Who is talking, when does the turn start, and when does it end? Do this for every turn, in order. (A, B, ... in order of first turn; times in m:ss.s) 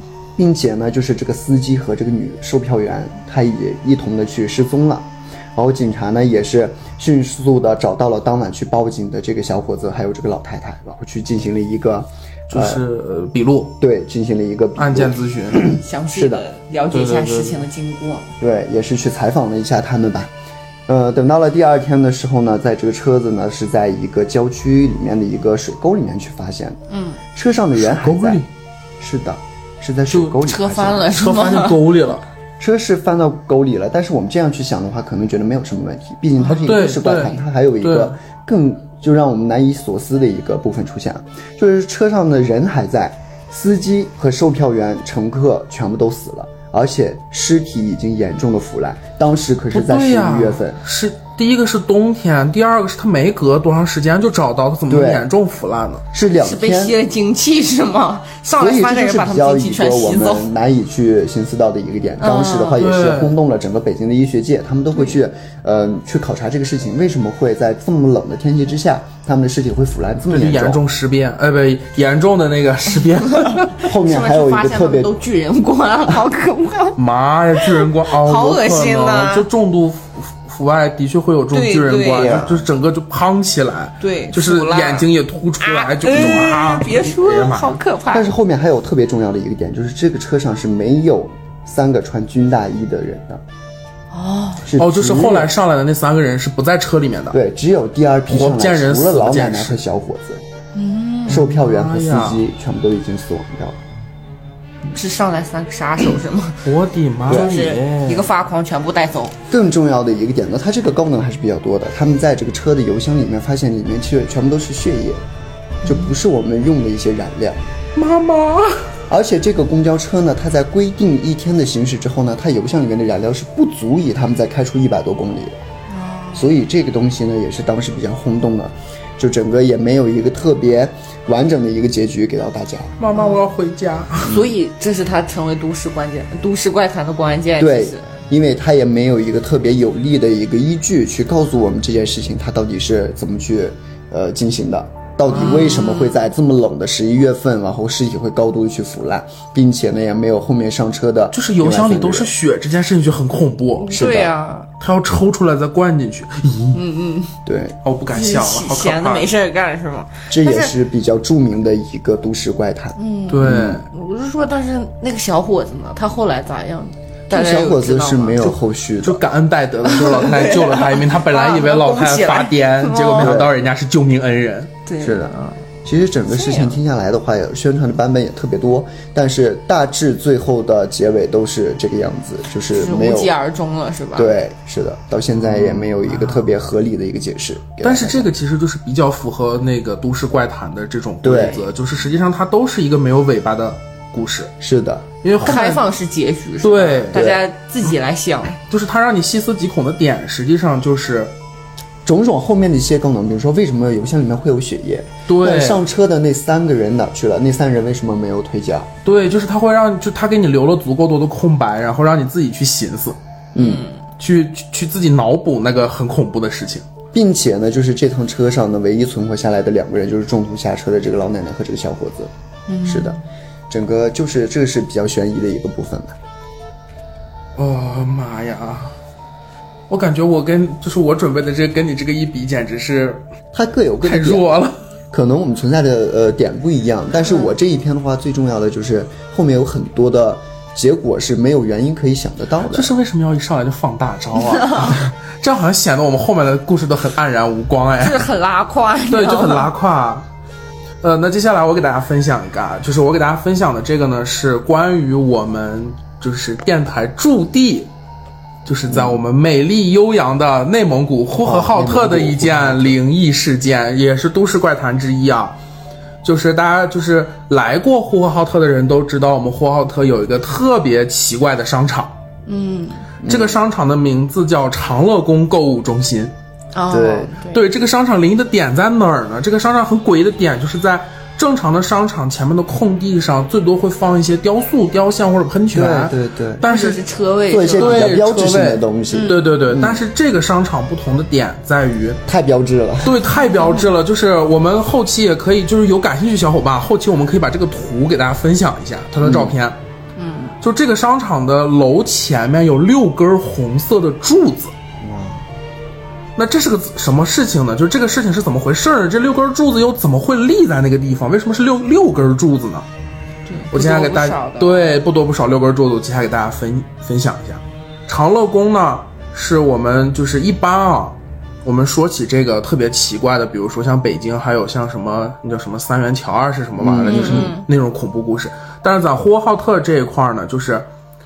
0:00.4-0:12.8 A
0:12.5-0:13.8 B
0:13.8-0:16.4 A
0:14.8-0:15.8 B
0:15.7-0:18.3 C
0:16.9-0:17.6 B
0:18.4-0:20.3 A
0:20.9-0:26.8 A
0:26.9-0:27.2 C
0:27.3-0:28.4 A
0:27.8-0:28.5 B
0:29.0-0:31.1 A
0:30.1-0:30.4 B
0:30.4-0:31.9 C
0:31.1-0:32.2 B
0:32.6-0:50.8 A
0:36.5-0:38.1 B
0:49.7-0:56.0 B
0:54.9-0:55.3 A
0:56.1-0:57.0 A
0:56.3-1:00.5 C
0:58.6-1:10.8 A
1:02.2-1:02.8 C
1:02.8-1:03.4 B
1:10.3-1:13.9 B
1:13.8-1:15.1 A
1:13.9-1:17.0 C
1:17.0-1:27.8 B
1:17.6-1:19.5 C
1:21.5-1:22.5 C
1:22.1-1:22.6 A
1:24.0-1:25.1 C
1:25.6-1:28.3 C
1:28.1-1:33.4 A
1:34.1-1:34.6 C
1:34.6-1:35.5 A
1:34.8-1:37.4 B
1:37.3-1:40.4 A
1:38.3-1:39.8 B
1:40.8-1:41.5 C
1:41.3-1:43.8 A
1:41.3-1:42.4 B
1:44.9-1:46.7 C
1:46.6-1:48.3 B
1:47.3-1:47.6 A
1:47.3-1:49.4 C
1:49.5-1:55.2 A
1:55.8-1:57.6 A
1:55.9-1:56.1 C
1:58.0-1:58.8 B
1:59.1-2:05.6 A
2:05.9-2:06.5 C
2:06.3-2:13.0 A
2:13.0-2:14.4 B
2:13.1-2:13.4 C
2:14.2-2:18.1 C
2:17.6-2:32.3 A
2:25.3-2:26.2 C
2:31.3-2:34.0 B
2:33.8-2:34.7 C
2:33.9-2:34.3 A
2:34.8-2:36.8 B
2:36.7-2:37.3 C
2:37.5-2:37.8 A
2:37.8-2:39.3 B
2:38.1-2:40.7 C
2:40.3-2:43.8 A
2:43.0-2:48.4 C
2:43.3-2:43.9 B
2:47.3-2:49.2 A
2:48.4-2:54.7 B
2:49.9-2:53.4 C
2:53.2-2:53.5 A
2:54.9-2:55.6 C
2:55.0-3:03.3 A
2:56.3-2:56.8 C
3:02.7-3:04.4 C
3:04.2-3:08.3 A
3:05.4-3:06.5 B
3:07.8-3:14.5 B
3:11.2-3:11.7 A
3:14.6-3:15.1 A
3:15.2-3:15.8 B
3:15.4-3:18.6 C
3:16.6-3:17.3 B
3:17.1-3:17.4 A
3:18.7-3:21.3 B
3:22.0-3:28.9 A
3:25.3-3:25.8 B
3:29.0-3:33.2 B
3:33.6-3:33.8 A
3:33.6-3:34.0 C
3:34.2-3:36.9 B
3:37.1-3:42.3 A
3:42.7-3:43.2 C
3:42.8-3:43.2 A
3:43.7-3:46.2 A
3:47.6-3:49.0 B
3:49.9-3:53.2 B
3:53.5-3:54.5 A
3:54.0-3:54.8 B
3:55.1-4:02.9 A
3:57.2-3:57.5 C
4:02.7-4:08.3 B
4:04.4-4:05.0 C
4:08.0-4:09.7 C
4:09.1-4:10.3 B
4:11.0-4:17.9 B
4:18.6-4:25.6 B
4:18.9-4:19.2 A
4:21.4-4:23.0 A
4:26.2-4:32.1 B
4:32.5-4:33.1 C
4:33.2-4:33.6 A
4:33.3-4:36.3 B
4:36.7-4:37.6 C
4:36.9-4:37.4 A
4:37.5-4:47.0 B
4:45.7-4:46.7 A
4:46.6-4:48.1 C
4:47.5-4:50.0 A
4:47.8-4:52.2 B
4:49.1-4:49.4 C
4:52.3-4:53.2 A
4:53.0-4:59.8 B
4:53.3-4:53.9 C
4:59.2-4:59.5 A
5:00.2-5:00.5 C
5:00.6-5:04.7 B
5:05.0-5:05.5 A
5:06.4-5:12.9 B
5:13.5-5:15.0 C
5:13.7-5:30.9 B
5:26.8-5:27.5 A
5:27.1-5:27.7 C